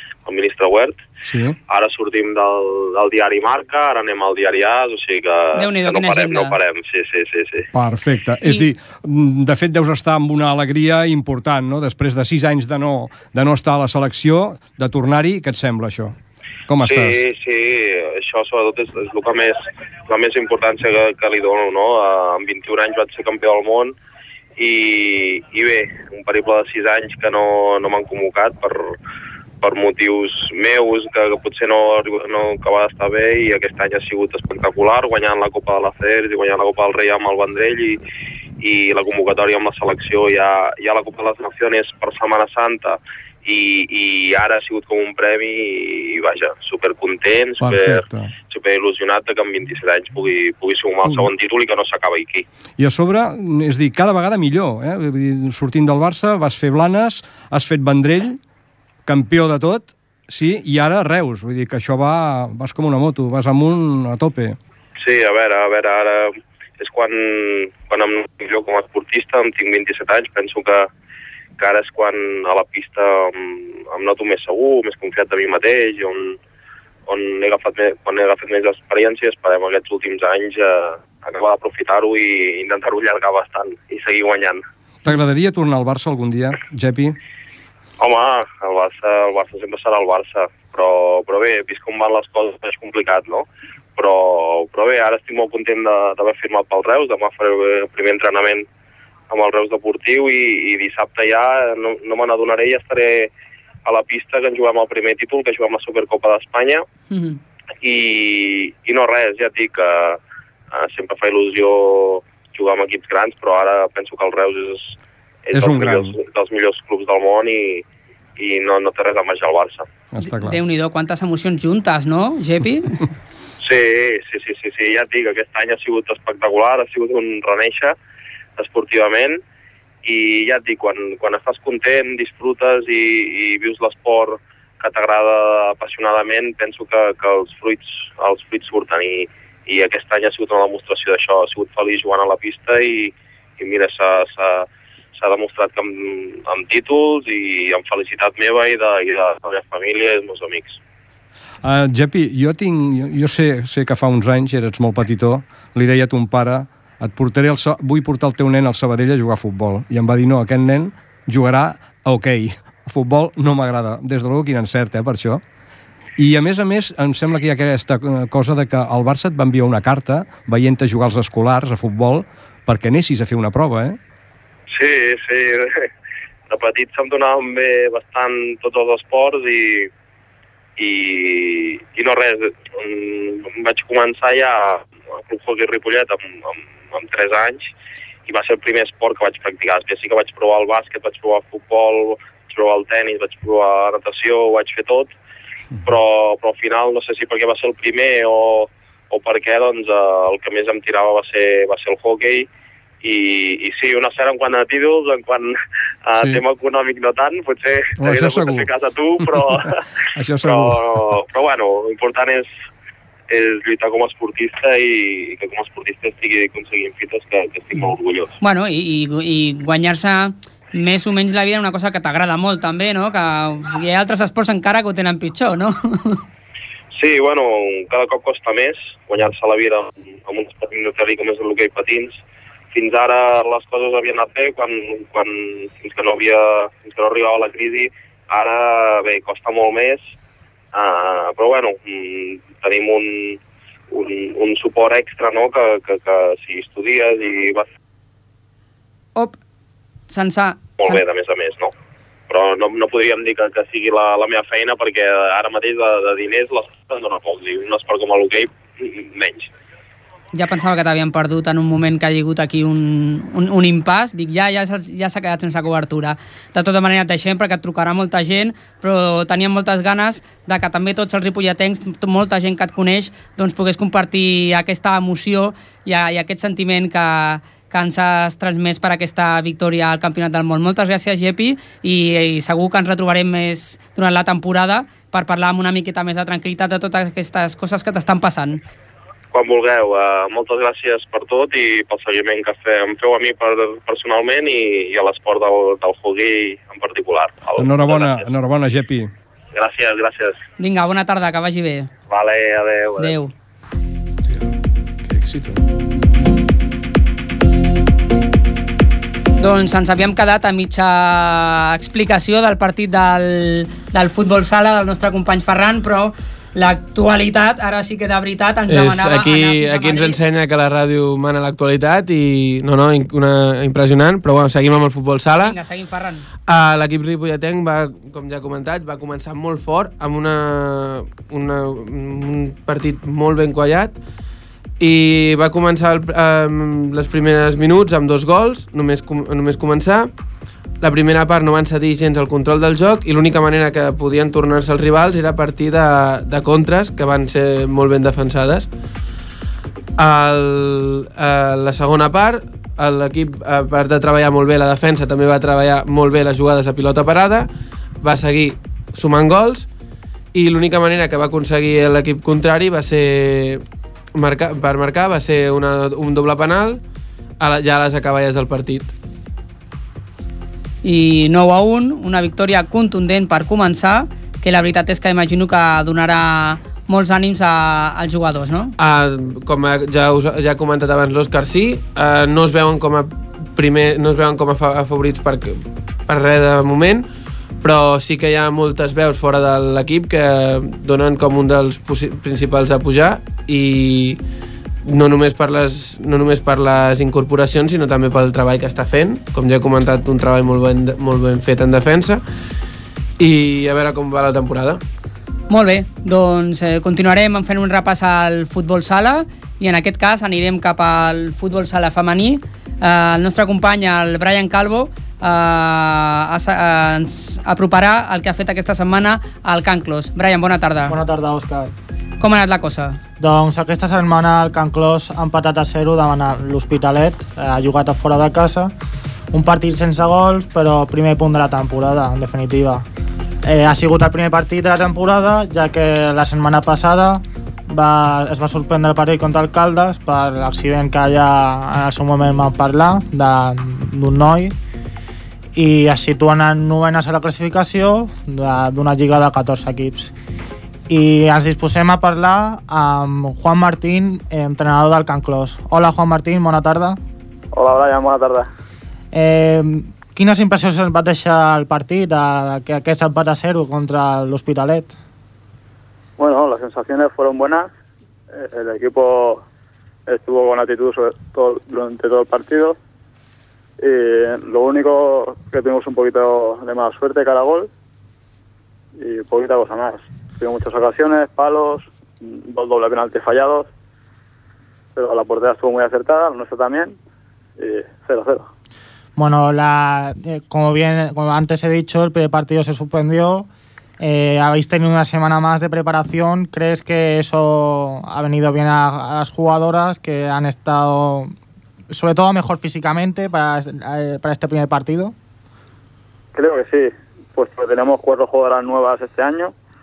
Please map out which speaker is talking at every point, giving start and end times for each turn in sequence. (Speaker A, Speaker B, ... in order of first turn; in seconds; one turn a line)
Speaker A: 0.2-1.0
Speaker B: 1.2-1.6
Speaker A: 1.7-7.7
Speaker C: 5.5-6.5
Speaker B: 7.7-16.1
Speaker B: 16.7-17.2
Speaker A: 16.8-23.9
Speaker A: 24.6-28.9
Speaker A: 29.6-38.0
Speaker A: 38.6-52.4
Speaker B: 47.6-48.3
Speaker B: 51.0-51.3
Speaker B: 52.8-58.4
Speaker B: 59.0-64.6
Speaker A: 65.0-70.9
Speaker A: 71.6-76.4
Speaker A: 77.1-84.6
Speaker B: 85.0-87.2
Speaker A: 88.0-93.5
Speaker A: 94.0-98.7
Speaker A: 99.3-103.3
Speaker A: 103.8-106.8
Speaker C: 107.1-107.4
Speaker A: 107.8-110.2
Speaker A: 110.7-115.0
Speaker A: 115.5-117.8
Speaker B: 115.5-116.2
Speaker A: 118.4-119.8
Speaker B: 120.1-120.6
Speaker C: 120.2-123.0
Speaker A: 123.6-127.9
Speaker A: 128.6-129.4
Speaker A: 130.0-150.8
Speaker B: 151.6-165.4
Speaker B: 166.2-174.0
Speaker A: 174.7-175.9
Speaker A: 176.5-179.9
Speaker A: 180.8-187.7
Speaker A: 188.3-195.1
Speaker A: 195.8-202.5
Speaker A: 203.0-205.5
Speaker A: 206.0-209.8
Speaker B: 208.0-208.7
Speaker B: 209.2-211.1
Speaker A: 210.4-212.5
Speaker A: 213.3-218.3
Speaker C: 217.8-226.2
Speaker A: 226.9-232.1
Speaker A: 232.7-240.0
Speaker A: 240.7-243.4
Speaker A: 243.9-247.7
Speaker C: 250.1-251.0
Speaker A: 250.8-251.7
Speaker A: 252.3-259.5
Speaker C: 260.3-288.6
Speaker A: 289.3-298.2
Speaker B: 297.5-299.1
Speaker A: 299.5-300.4
Speaker C: 300.6-301.9
Speaker A: 302.1-303.0
Speaker C: 303.0-303.3
Speaker B: 305.1-305.6
Speaker C: 309.4-320.2
Speaker D: 318.7-325.6
Speaker C: 325.4-326.2
Speaker D: 326.5-333.9
Speaker D: 334.8-340.1
Speaker D: 340.8-348.7
Speaker D: 350.0-357.5
Speaker D: 358.0-359.7
Speaker D: 360.3-363.6
Speaker D: 364.1-366.8
Speaker D: 367.4-368.9
Speaker C: 370.8-378.7
Speaker D: 378.8-387.1
Speaker D: 387.6-394.2
Speaker D: 394.8-402.2
Speaker D: 403.2-404.8
Speaker C: 405.5-420.9
Speaker E: 420.9-421.7
Speaker C: 422.2-423.0
Speaker E: 423.2-428.7
Speaker E: 429.3-432.8
Speaker E: 433.4-444.5
Speaker E: 445.5-450.1
Speaker E: 450.9-457.0
Speaker F: 457.5-458.5
Speaker E: 459.1-464.9
Speaker F: 466.2-467.7
Speaker F: 468.3-469.4
Speaker F: 470.1-472.8
Speaker F: 473.8-477.7
Speaker F: 479.0-483.7
Speaker F: 484.9-486.9
Speaker F: 487.6-488.5
Speaker E: 489.1-493.5
Speaker E: 494.0-501.3
Speaker E: 501.9-505.1
Speaker F: 506.3-509.5